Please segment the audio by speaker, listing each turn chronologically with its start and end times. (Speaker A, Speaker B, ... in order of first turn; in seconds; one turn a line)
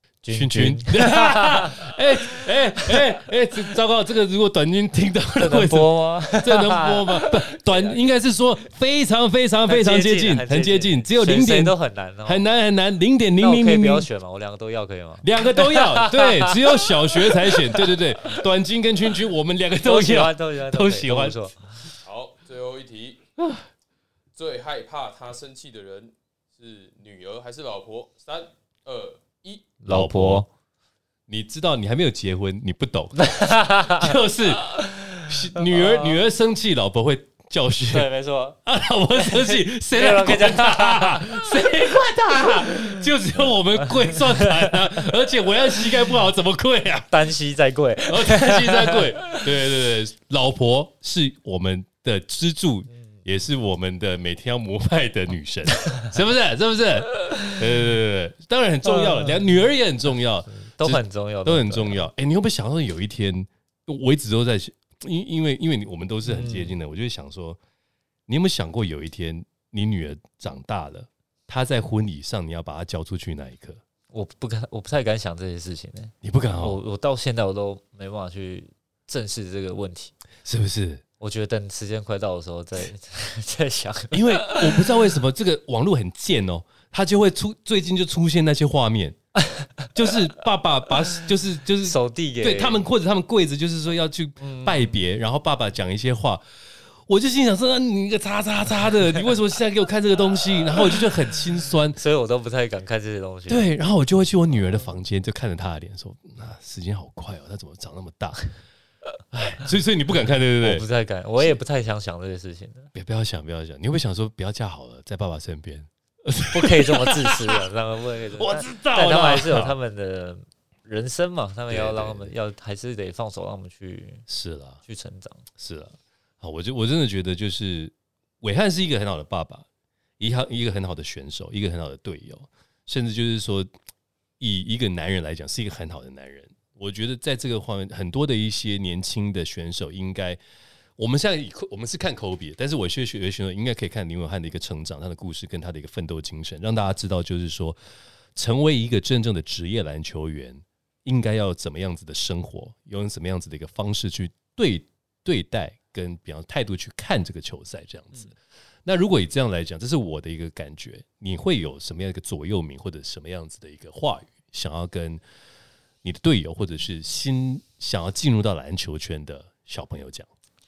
Speaker A: 0.2-3.7
Speaker B: 0.3-14.1
Speaker A: 5.3-8.0
Speaker A: 9.7-12.4
Speaker A: 13.4-18.4
Speaker B: 15.2-21.5
Speaker A: 19.8-21.6
Speaker C: 22.0-23.2
Speaker C: 24.3-29.7
Speaker A: 29.8-30.5
Speaker B: 29.9-30.4
Speaker B: 31.3-38.1
Speaker A: 33.2-36.2
Speaker A: 37.9-38.6
Speaker B: 38.6-47.1
Speaker A: 39.1-42.1
Speaker A: 43.8-45.0
Speaker A: 47.1-49.5
Speaker B: 48.1-67.6
Speaker A: 58.8-59.7
Speaker A: 60.6-62.0
Speaker A: 66.2-66.7
Speaker B: 68.3-73.8
Speaker A: 74.1-80.1
Speaker B: 76.2-76.8
Speaker B: 80.5-81.0
Speaker A: 81.2-85.0
Speaker B: 84.1-89.2
Speaker A: 89.3-90.1
Speaker B: 89.9-96.4
Speaker A: 91.8-92.8
Speaker A: 94.4-95.0
Speaker B: 97.1-102.0
Speaker A: 102.0-103.7
Speaker B: 103.5-108.5
Speaker B: 109.3-110.8
Speaker A: 110.2-112.9
Speaker B: 112.9-117.7
Speaker A: 116.5-124.2
Speaker B: 118.3-119.7
Speaker B: 121.7-122.3
Speaker B: 124.3-124.8
Speaker A: 124.8-125.5
Speaker B: 125.6-129.7
Speaker B: 130.2-133.7
Speaker B: 134.4-140.4
Speaker B: 141.0-147.8
Speaker B: 148.3-165.2
Speaker B: 166.0-170.3